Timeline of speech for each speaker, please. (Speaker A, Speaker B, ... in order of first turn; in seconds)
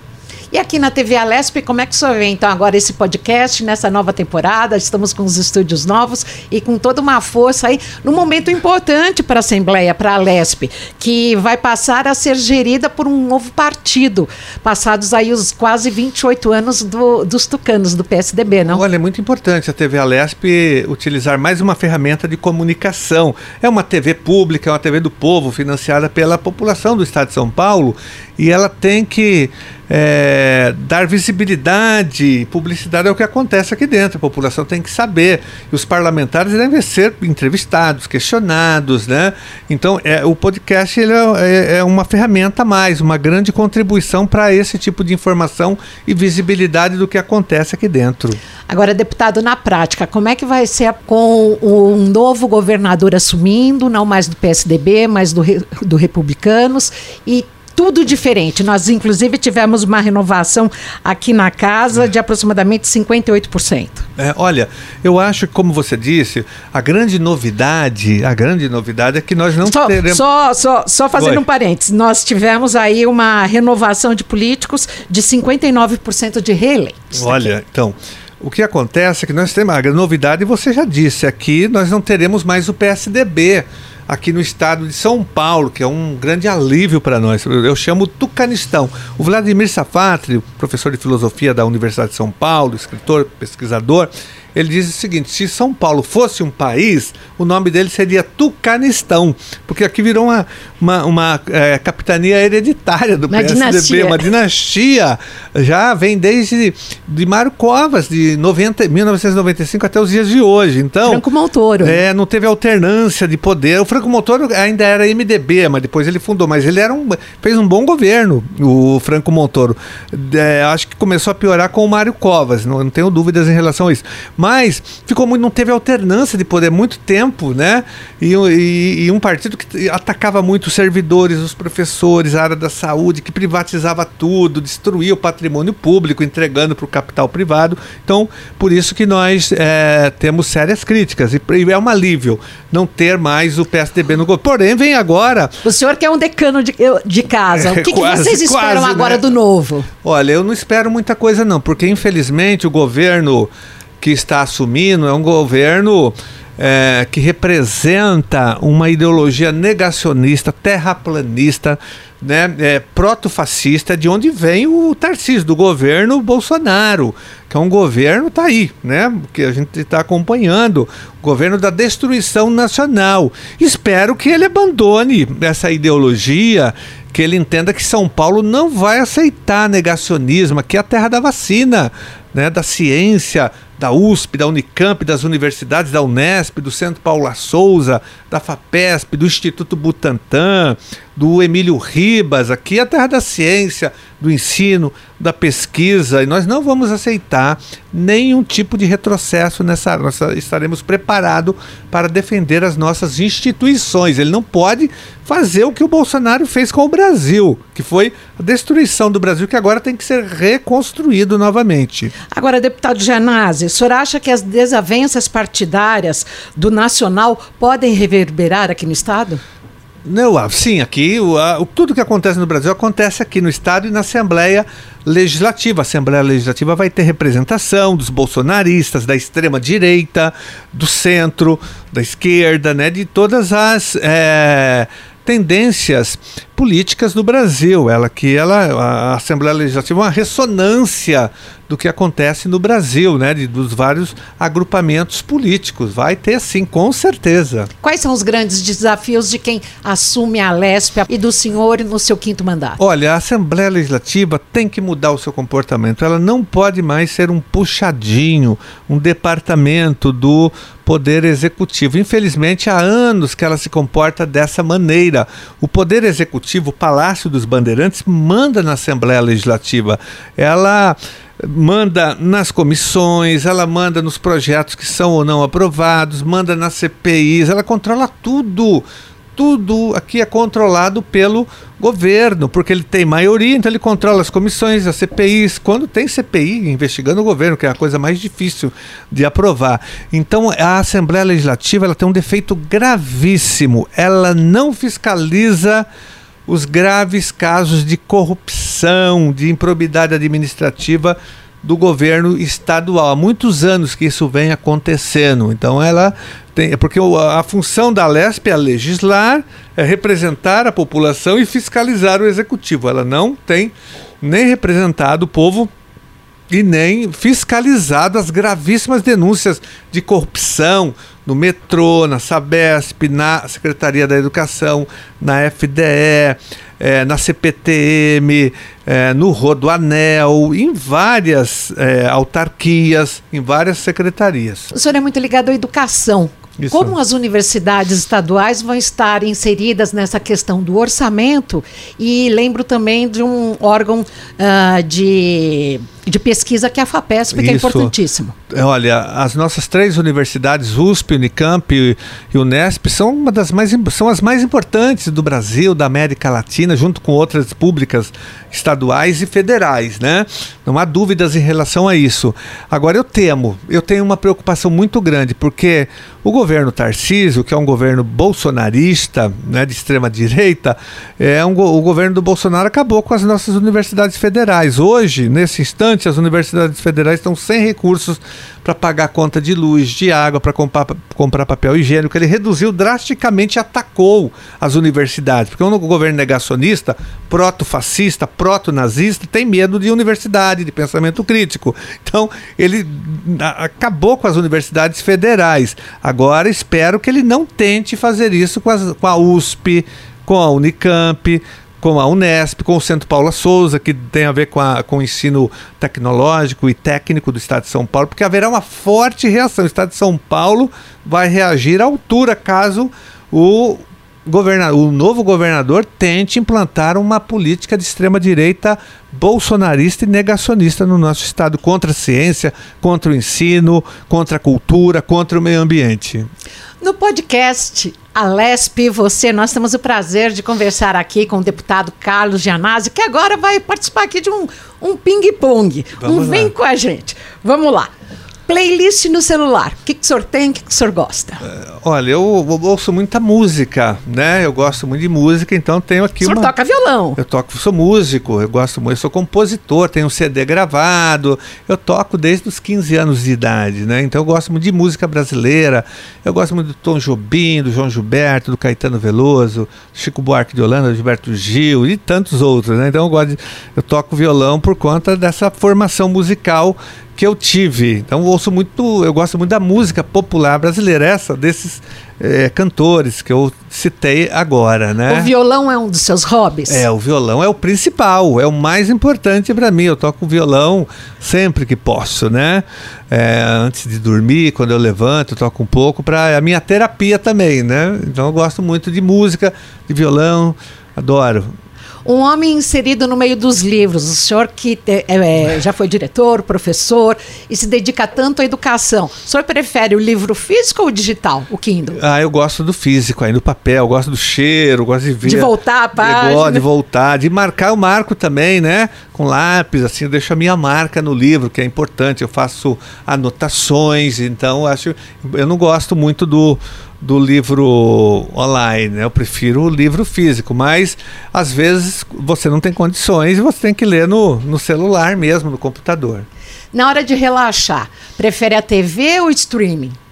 Speaker A: 0.5-18.8, 48.7-64.1, 69.6-77.5, 103.3-104.2, 111.0-112.0, 145.6-149.9, 212.3-219.4, 247.8-252.8, 334.7-348.3, 426.8-437.9, 438.5-441.4, 446.2-447.2, 475.1-476.9, 492.0-502.0, 505.2-506.6, 526.7-530.0
Speaker B: 18.7-48.4, 64.2-70.2, 71.2-71.4, 77.1-111.2, 111.8-145.6, 147.5-149.3, 150.0-212.1, 220.0-247.7, 252.8-278.8, 279.4-295.9, 296.5-315.7, 316.5-334.7, 336.6-336.9, 347.3-347.9, 348.5-426.3, 436.0-436.5, 441.4-446.5, 447.2-475.3, 476.7-491.5, 501.9-526.3